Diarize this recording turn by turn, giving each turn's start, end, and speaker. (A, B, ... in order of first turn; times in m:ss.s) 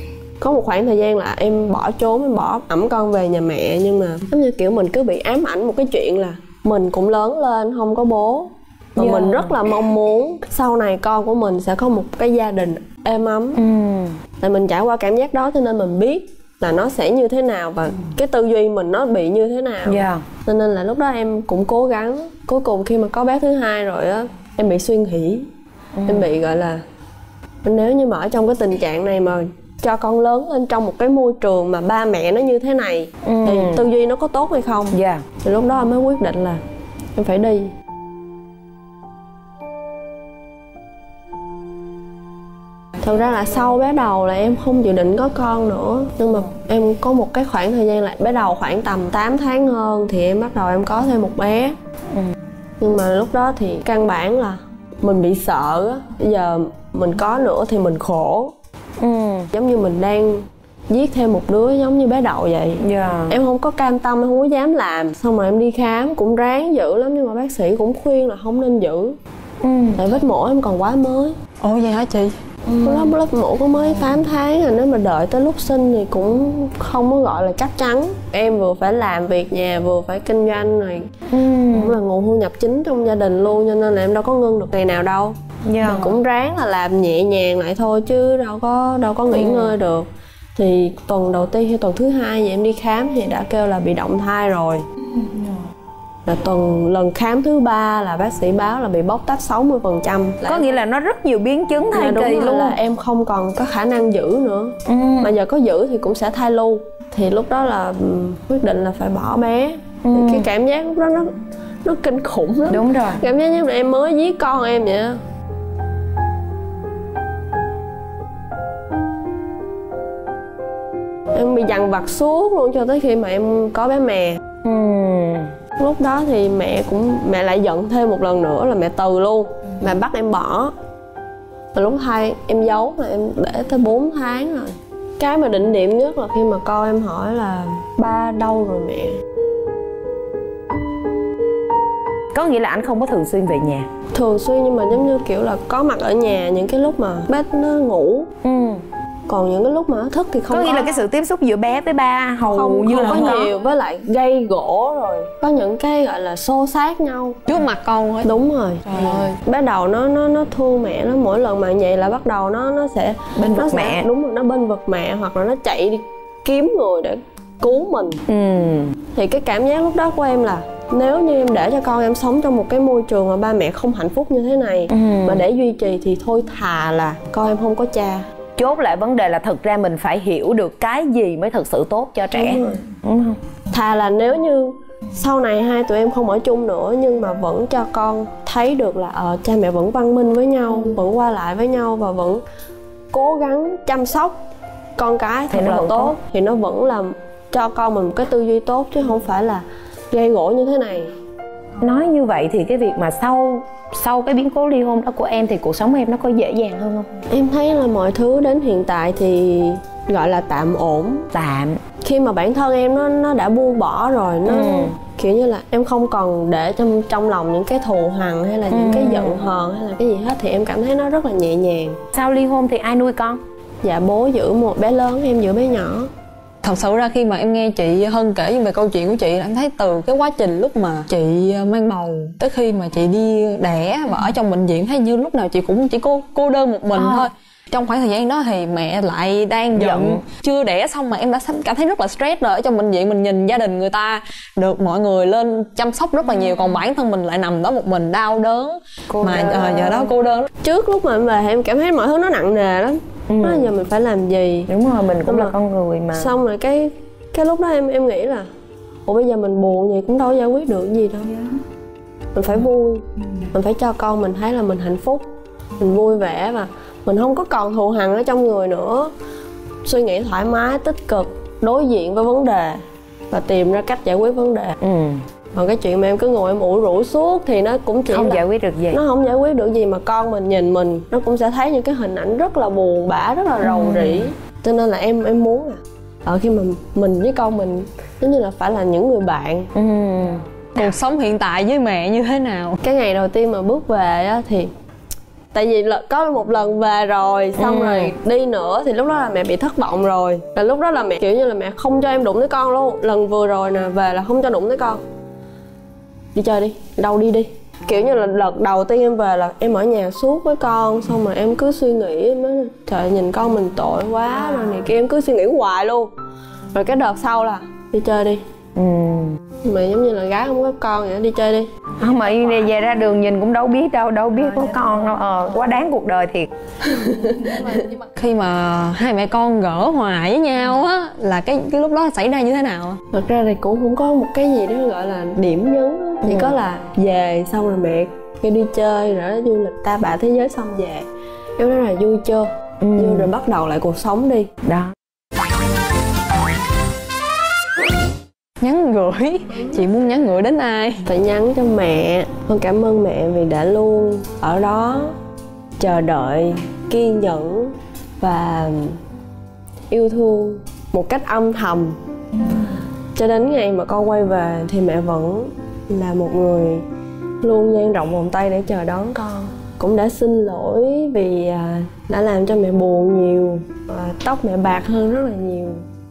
0:00.4-0:13.6 A
0:09.0-0:09.6 B
0:13.6-0:14.2 B
0:14.4-0:25.5 A
0:19.8-0:20.2 B
0:26.0-0:26.3 B
0:26.1-0:26.8 A
0:27.6-0:36.6 A
0:33.2-0:33.8 B
0:34.9-0:35.2 B
0:37.2-0:37.7 A
0:43.0-0:51.8 A
0:52.8-0:58.5 A
0:59.0-0:59.5 B
0:59.5-1:09.2 A
1:02.8-1:03.4 B
1:09.6-1:10.0 B
1:10.0-1:11.4 A
1:11.6-1:12.3 C
1:12.7-1:13.1 B
1:12.8-1:21.1 A
1:21.3-1:22.0 B
1:21.7-1:34.8 A
1:25.6-1:26.2 B
1:29.3-1:29.8 B
1:36.3-1:40.6 A
1:40.4-1:42.8 B
1:41.9-1:55.2 A
1:44.9-1:45.3 B
1:50.0-1:50.5 B
1:52.7-1:53.2 B
2:01.3-2:04.4 A
2:04.6-2:05.5 B
2:05.8-2:10.7 A
2:11.7-2:19.2 A
2:22.3-2:23.9 B
2:24.1-2:28.3 A
2:28.4-2:28.8 B
2:29.3-2:31.0 A
2:30.5-2:33.5 B
2:32.5-2:37.4 A
2:37.5-2:38.3 C
2:38.2-2:48.2 A
2:38.9-2:39.3 C
2:43.4-2:44.1 B
2:48.3-2:49.0 B
2:49.1-2:58.2 A
2:54.9-2:55.4 B
2:58.6-3:03.4 B
3:02.3-3:02.8 A
3:03.7-3:12.4 A
3:13.1-3:14.4 A
3:15.0-3:21.1 A
3:15.5-3:16.1 B
3:21.8-3:27.2 B
3:27.3-3:31.3 A
3:31.3-3:31.8 B
3:32.0-3:42.0 A
3:34.5-3:35.0 B
3:38.7-3:39.4 B
3:42.1-3:43.4 B
3:43.8-3:46.1 A
3:46.6-4:10.5 C
3:57.0-3:57.3 B
3:59.8-4:00.2 B
4:09.2-4:10.1 A
4:10.6-4:14.7 A
4:13.3-4:13.7 B
4:14.7-4:16.3 B
4:15.2-4:15.5 A
4:16.2-4:18.5 A
4:19.1-4:21.4 A
4:22.4-4:25.2 A
4:25.8-4:29.1 A
4:29.8-4:34.8 A
4:34.8-4:35.2 B
4:35.6-4:49.7 A
4:38.1-4:39.0 B
4:43.6-4:44.3 B
4:49.8-4:50.4 B
4:50.8-4:52.8 C
4:52.8-4:54.7 A
4:55.5-5:05.0 A
4:57.6-4:58.2 B
5:06.4-5:16.1 A
5:16.7-5:18.4 A
5:18.8-5:19.4 B
5:19.6-5:21.7 A
5:22.0-5:26.5 B
5:26.8-5:27.9 A
5:27.7-5:33.0 C
5:33.1-5:41.1 A
5:36.2-5:36.6 B
5:41.6-5:44.5 A
5:42.8-5:43.3 B
5:44.6-5:44.9 B
5:48.6-5:51.0 C
5:51.1-5:55.2 A
5:55.8-5:59.0 A
5:59.9-6:02.0 A
6:03.2-6:06.8 A
6:07.4-6:15.8 A